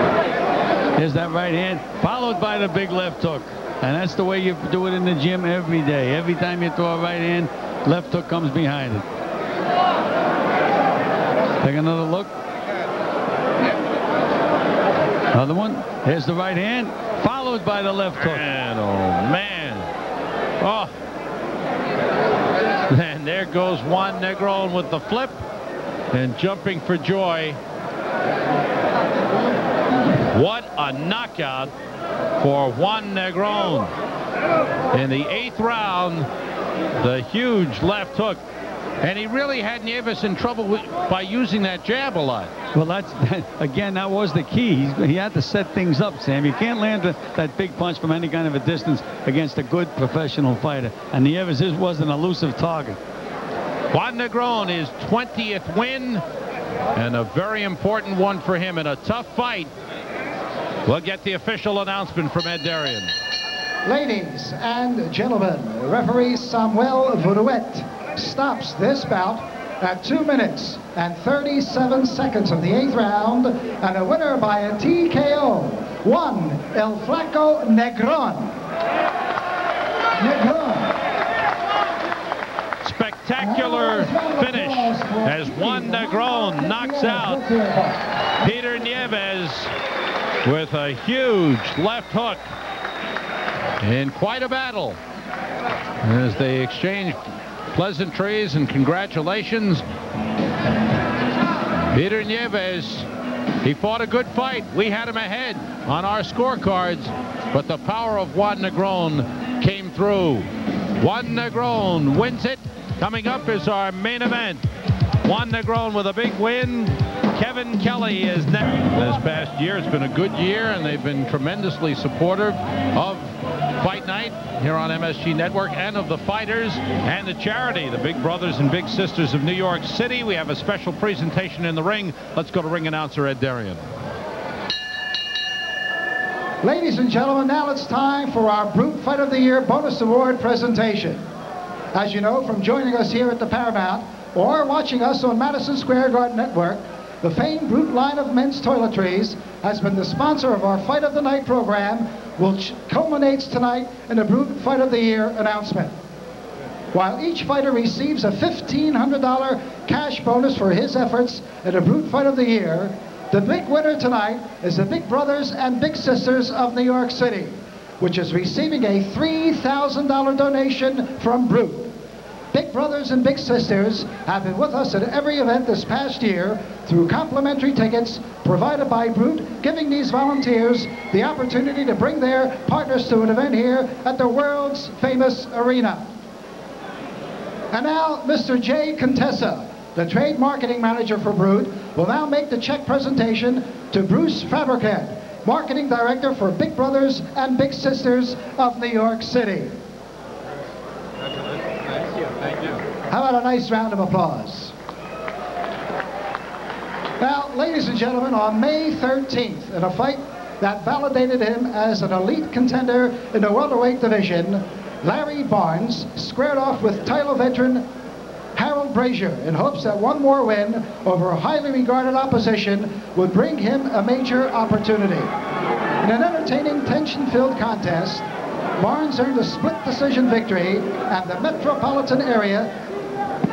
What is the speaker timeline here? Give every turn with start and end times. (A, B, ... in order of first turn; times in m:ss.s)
0:01.0-0:09.0 A
0:11.6-0:12.3 A
0:15.3-0:18.4 A
0:18.2-0:19.9 B
0:20.6-0:20.9 B
0:22.8-0:25.4 B
0:26.1-0:27.6 B
0:30.3-0:31.7 B
0:32.4-0:33.9 B
0:34.9-0:36.3 B
0:37.0-0:38.4 B
0:39.0-0:42.5 B
0:42.7-0:53.0 A
0:53.9-0:56.2 B
0:56.9-0:59.7 B
1:00.8-1:03.1 B
1:03.8-1:18.6 C
1:20.2-1:21.0 C
1:22.8-1:27.4 B
1:23.4-1:28.0 C
1:28.4-1:29.7 B
1:30.4-1:32.4 B
1:33.8-1:35.0 B
1:36.0-1:37.2 B
1:37.7-1:39.8 B
1:41.9-1:43.1 B
1:43.6-1:50.5 B
1:51.0-1:54.6 B
1:55.2-2:13.8 B
2:16.6-2:21.2 C
2:21.9-2:36.0 C
2:36.9-2:52.0 C
2:52.5-3:06.1 C
3:07.7-3:19.8 C
3:23.1-3:24.7 C
3:27.2-3:37.9 C
3:38.6-3:45.3 C
3:46.0-3:48.3 C
3:48.8-3:52.7 C